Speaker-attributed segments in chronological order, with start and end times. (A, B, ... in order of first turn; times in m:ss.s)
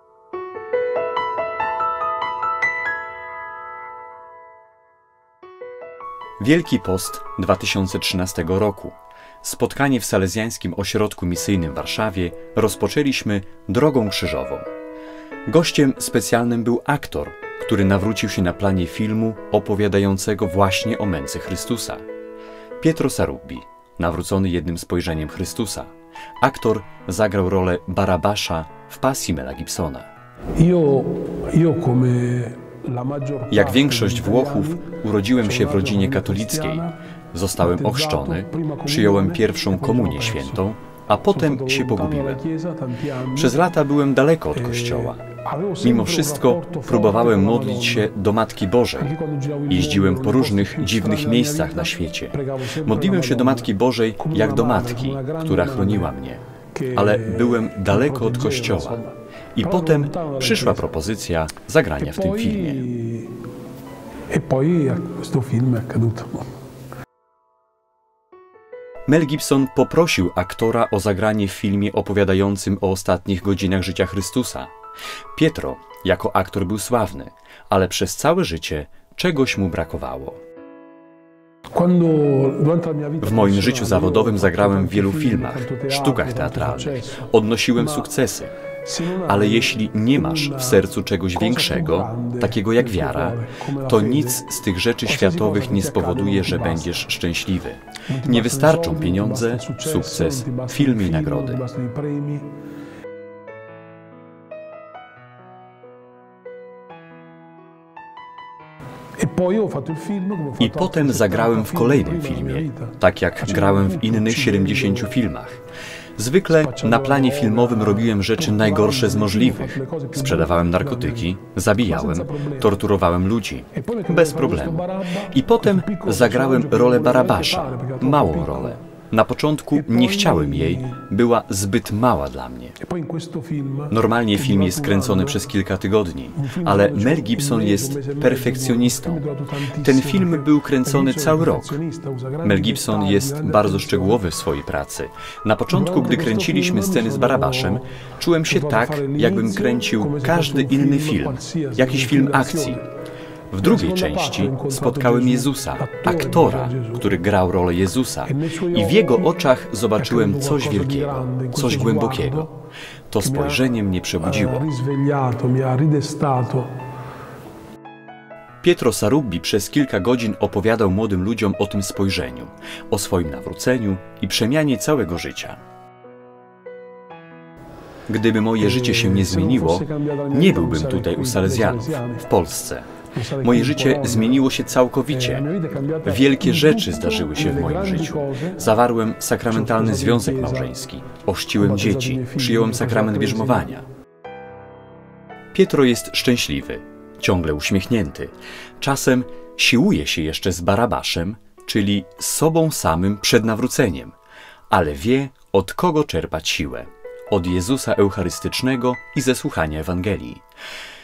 0:06.4-0:14.7 A
0:15.5-0:22.0 A
0:22.8-0:30.1 A
0:30.6-0:37.0 B
0:33.5-0:42.4 A
0:37.6-0:40.6 B
0:41.3-0:43.7 B
0:43.3-0:45.2 A
0:44.5-0:48.1 B
0:45.8-0:49.1 A
0:49.0-0:56.1 B
0:49.7-0:56.4 A
0:56.7-1:00.9 B
0:56.9-0:59.0 A
0:59.6-1:02.9 A
1:02.0-1:03.3 B
1:04.3-1:06.5 B
1:09.1-1:14.7 A
1:15.3-1:20.4 A
1:21.8-1:28.1 B
1:23.2-1:28.5 A
1:28.8-1:34.5 B
1:29.3-1:41.6 A
1:35.0-1:37.0 B
1:38.1-1:42.5 B
1:49.2-1:55.1 B
1:50.6-1:55.6 A
1:56.2-2:12.8 A
1:56.5-2:02.8 B
2:03.7-2:08.8 B
2:09.7-2:11.0 B
2:12.8-2:15.4 B
2:13.9-2:19.2 A
2:16.3-2:24.2 B
2:19.8-2:21.8 A
2:22.4-2:32.8 A
2:25.7-2:27.8 B
2:28.5-2:32.9 B
2:33.5-2:42.5 A
2:33.6-2:37.2 B
2:38.2-2:42.6 B
2:43.1-2:44.7 A
2:43.2-2:43.7 B
2:44.2-2:46.7 B
2:48.6-2:55.6 A
2:58.1-3:02.9 A
2:58.6-3:02.3 B
3:03.1-3:04.5 B
3:03.4-3:13.8 A
3:05.1-3:08.7 B
3:09.5-3:10.7 B
3:11.6-3:13.8 B
3:15.5-3:24.2 A
3:24.7-3:30.4 A